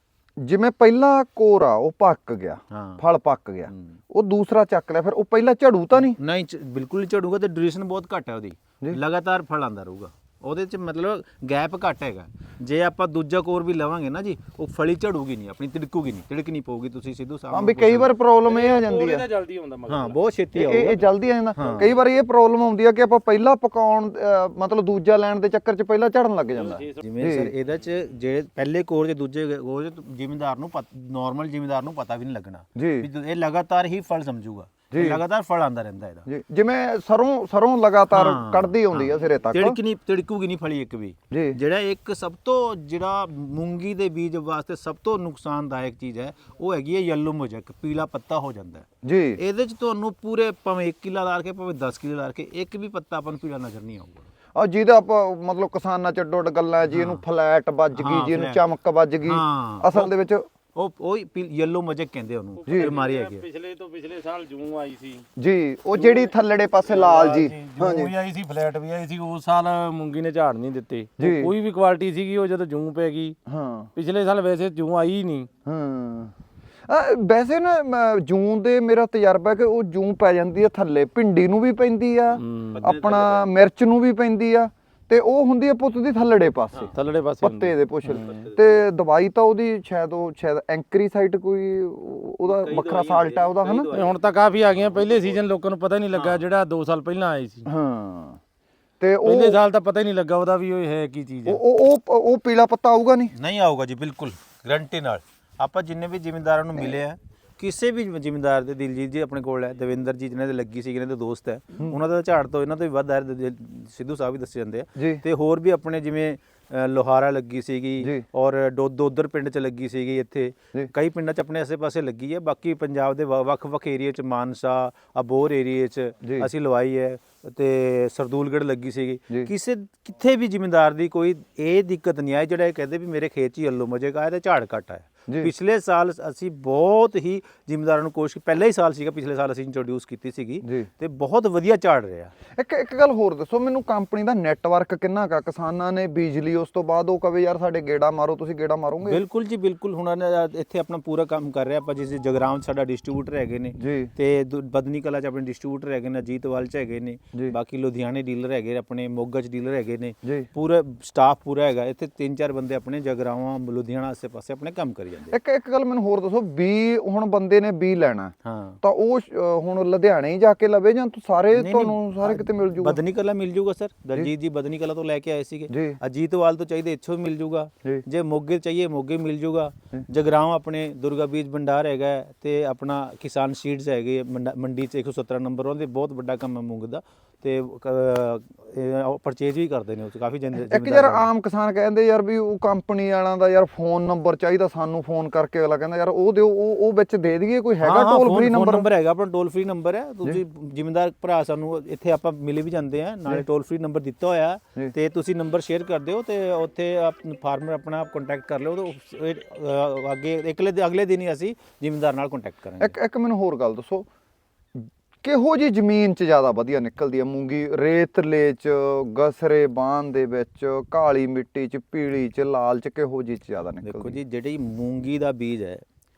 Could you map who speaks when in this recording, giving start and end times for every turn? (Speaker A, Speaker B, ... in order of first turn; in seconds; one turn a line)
Speaker A: 0.4-6.2
Speaker B: 2.7-3.0
Speaker B: 3.7-4.0
Speaker B: 6.0-18.1
Speaker A: 17.5-19.3
Speaker C: 18.4-20.2
Speaker B: 19.9-21.9
Speaker A: 20.6-27.5
Speaker C: 21.6-21.9
Speaker C: 26.5-27.0
Speaker B: 27.0-36.3
Speaker A: 32.8-33.1
Speaker A: 34.9-35.2
Speaker A: 36.3-39.8
Speaker B: 38.1-54.3
Speaker A: 41.3-41.6
Speaker A: 49.0-49.4
Speaker A: 54.5-60.5
Speaker B: 56.9-57.2
Speaker B: 57.9-58.6
Speaker B: 59.2-60.1
Speaker B: 60.8-63.5
Speaker C: 62.6-65.3
Speaker A: 65.4-68.1
Speaker C: 66.0-66.3
Speaker C: 66.8-73.4
Speaker A: 71.2-71.5
Speaker A: 73.5-73.9
Speaker C: 74.0-75.5
Speaker A: 75.7-76.3
Speaker A: 76.9-93.9
Speaker C: 82.4-82.9
Speaker B: 82.7-83.5
Speaker C: 87.0-88.5
Speaker B: 88.0-88.8
Speaker B: 92.5-95.4
Speaker C: 93.9-97.7
Speaker B: 96.1-96.5
Speaker A: 97.7-98.4
Speaker A: 99.0-99.6
Speaker C: 99.2-101.6
Speaker A: 101.5-103.3
Speaker B: 103.3-142.3
Speaker A: 115.0-115.2
Speaker A: 126.2-126.5
Speaker A: 140.6-140.9
Speaker A: 142.6-149.2
Speaker B: 149.0-165.4
Speaker A: 153.8-154.1
Speaker A: 160.2-160.5
Speaker A: 165.3-173.0
Speaker B: 168.4-168.8
Speaker B: 171.5-191.3
Speaker A: 175.7-176.0
Speaker A: 190.6-198.9
Speaker B: 197.8-212.9
Speaker A: 212.8-214.1
Speaker A: 214.8-224.2
Speaker B: 223.8-225.8